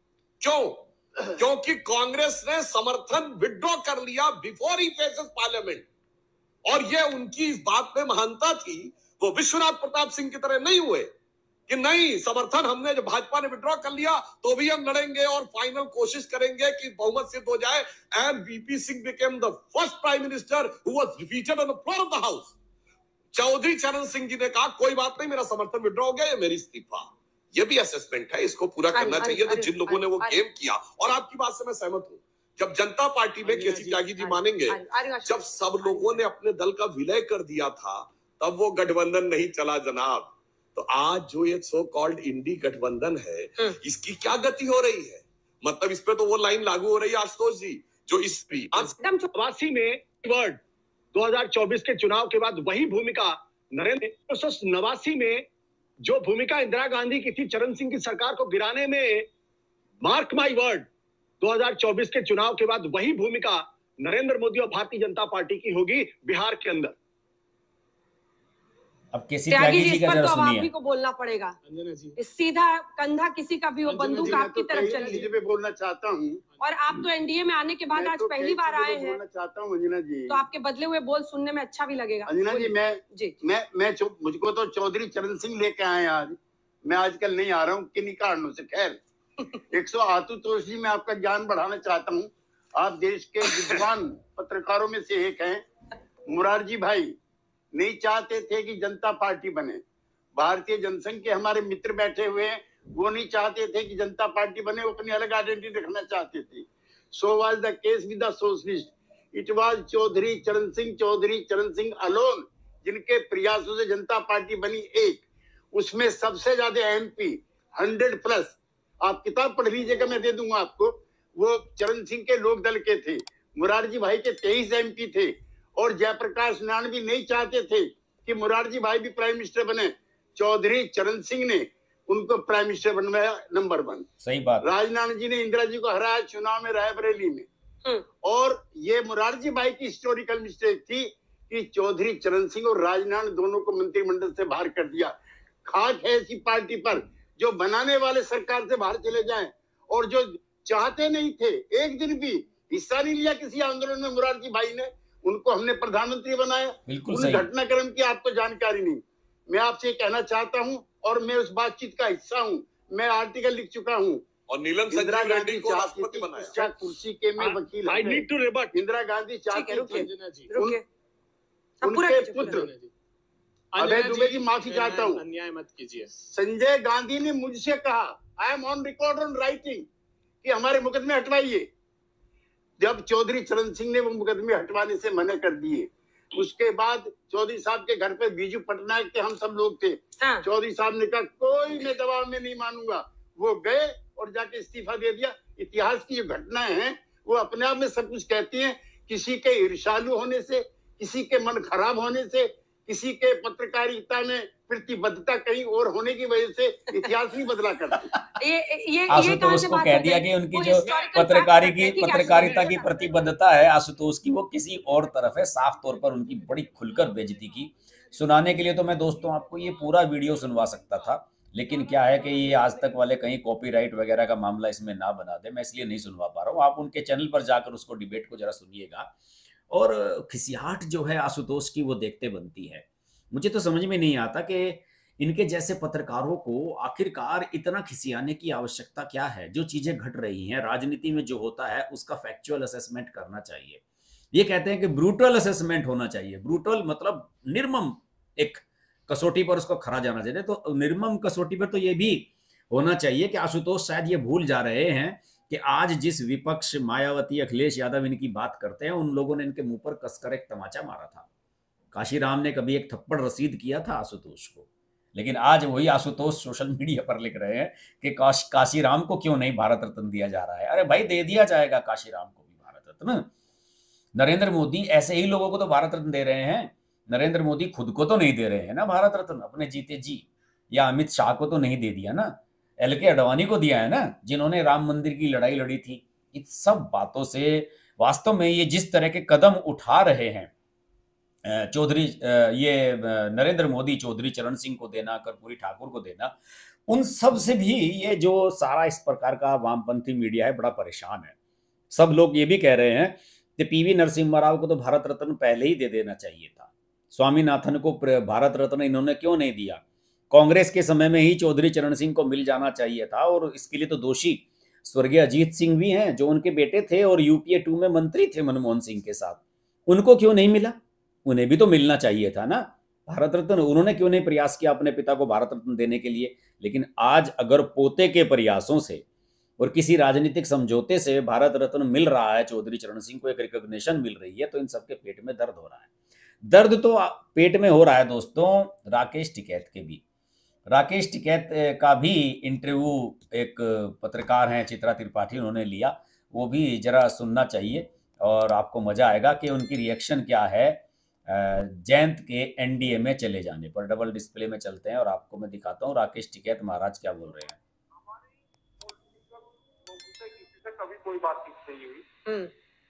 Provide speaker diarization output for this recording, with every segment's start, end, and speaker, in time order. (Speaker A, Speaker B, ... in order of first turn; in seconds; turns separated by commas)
Speaker A: 0.4-5.8, Speaker A: 6.6-11.1, Speaker A: 11.7-22.6, Speaker A: 23.3-48.9, Speaker B: 28.9-30.4, Speaker C: 33.4-34.1, Speaker B: 34.1-36.2, Speaker B: 49.0-49.3, Speaker D: 49.3-50.6, Speaker D: 51.1-55.4, Speaker D: 56.0-59.3, Speaker D: 60.0-60.9, Speaker D: 61.4-66.9, Speaker E: 69.1-70.7, Speaker B: 69.5-71.6, Speaker C: 71.6-72.2, Speaker B: 72.2-75.3, Speaker C: 73.9-75.3, Speaker F: 74.1-76.4, Speaker B: 76.6-79.2, Speaker F: 77.9-80.4, Speaker B: 80.3-83.3, Speaker F: 82.3-89.0, Speaker F: 89.7-95.6, Speaker F: 96.2-97.2, Speaker F: 97.7-99.8, Speaker F: 100.3-134.1, Speaker E: 134.2-134.7, Speaker F: 134.6-137.5, Speaker F: 138.2-164.2, Speaker E: 156.9-157.5, Speaker A: 164.5-166.6, Speaker F: 164.9-170.8, Speaker D: 167.8-168.8, Speaker B: 169.5-170.8, Speaker C: 169.9-170.5, Speaker B: 171.8-172.7, Speaker F: 171.8-172.7, Speaker C: 172.3-172.9, Speaker C: 173.7-176.1, Speaker F: 173.8-175.2, Speaker F: 176.2-179.8, Speaker F: 180.4-181.7, Speaker F: 182.8-208.1, Speaker B: 190.2-190.4, Speaker B: 208.4-213.3, Speaker E: 209.1-229.1, Speaker C: 212.2-212.5, Speaker E: 229.7-243.8, Speaker E: 244.3-261.2, Speaker E: 261.9-273.3, Speaker E: 274.1-290.5, Speaker E: 291.4-296.4, Speaker E: 296.9-301.3, Speaker E: 301.9-329.0, Speaker E: 329.6-335.9, Speaker E: 336.4-340.0, Speaker E: 340.7-357.6, Speaker G: 357.9-362.0